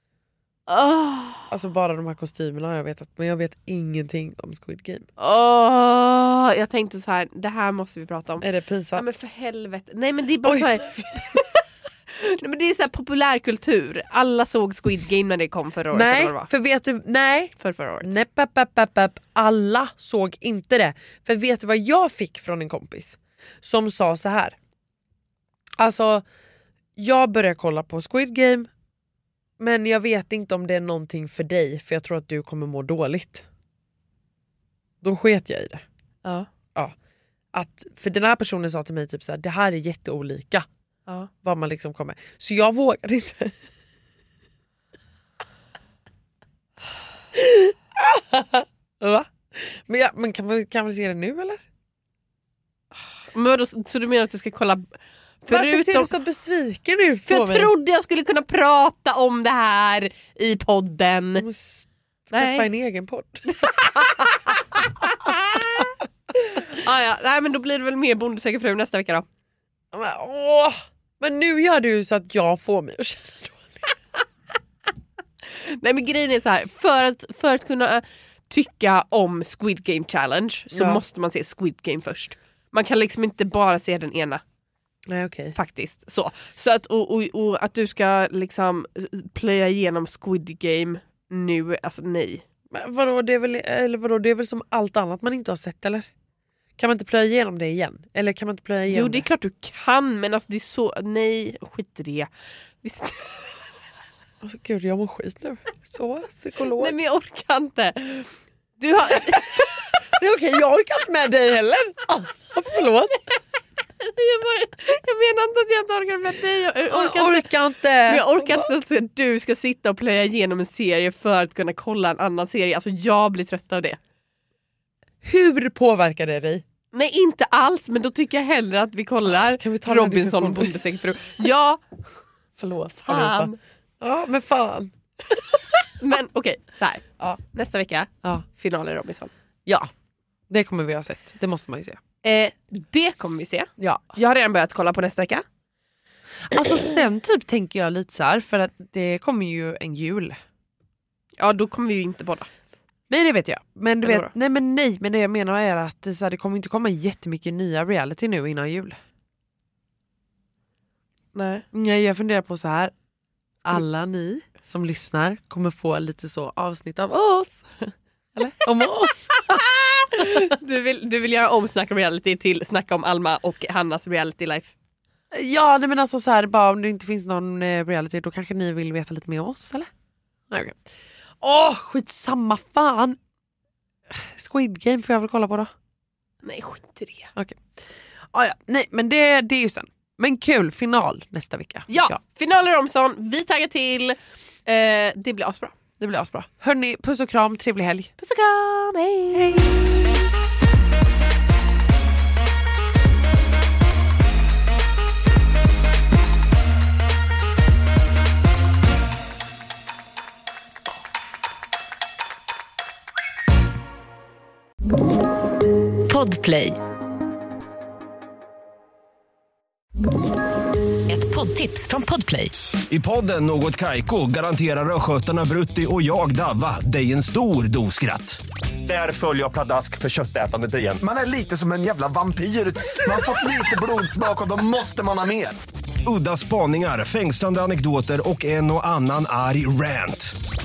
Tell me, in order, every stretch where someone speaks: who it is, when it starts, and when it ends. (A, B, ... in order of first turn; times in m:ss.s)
0:00.7-0:01.5 A
0:01.5-0:05.1 B
0:05.2-0:16.5 A
0:08.4-0:09.0 B
0:10.4-0:11.4 B
0:15.9-0:24.6 B
0:17.6-0:18.1 A
0:25.8-0:26.2 B
0:27.0-0:28.7 B
0:29.6-0:33.4 B
0:35.0-0:35.8 B
0:36.2-0:36.5 A
0:37.5-0:40.6 B
0:41.4-0:43.6 B
0:47.3-0:51.6 B
0:53.1-0:56.1 A
0:55.5-0:57.7 B
0:57.3-1:01.4 A
1:01.4-1:05.9 B
1:02.3-1:02.7 A
1:03.5-1:05.8 A
1:06.5-1:09.2 A
1:09.9-1:13.8 B
1:15.4-1:24.4 A
1:20.7-1:21.0 B
1:25.1-1:25.5 B
1:25.5-1:32.4 A
1:32.7-1:36.1 B
1:36.8-1:39.2 B
1:38.9-1:42.3 A
1:42.8-1:43.7 A
1:44.4-1:47.0 B
1:46.7-1:49.9 A
1:50.2-1:53.3 B
1:54.0-2:04.0 A
1:56.9-1:58.7 B
2:05.2-2:06.6 B
2:06.9-2:11.8 A
2:09.3-2:10.8 B
2:12.6-2:14.9 B
2:13.0-2:13.6 A
2:16.0-2:19.3 A
2:20.5-2:22.0 B
2:22.2-2:25.4 A
2:23.8-2:24.2 B
2:26.5-2:30.4 B
2:31.4-2:32.5 A
2:33.1-2:39.0 B
2:34.0-2:34.3 A
2:41.3-2:41.6 A
2:41.7-2:42.9 B
2:43.6-2:49.6 B
2:49.5-2:54.7 A
2:55.3-2:59.9 B
3:00.5-3:00.8 B
3:01.4-3:03.2 B
3:04.1-3:05.7 B
3:06.4-3:07.3 A
3:07.4-3:07.8 B
3:08.3-3:12.2 B
3:11.9-3:15.8 A
3:16.0-3:18.1 B
3:18.2-3:20.0 A
3:19.3-3:19.9 B
3:36.1-3:36.8 C
3:41.1-3:42.5 C
3:42.9-3:51.0 D
3:51.0-3:55.6 E
3:56.0-4:00.3 D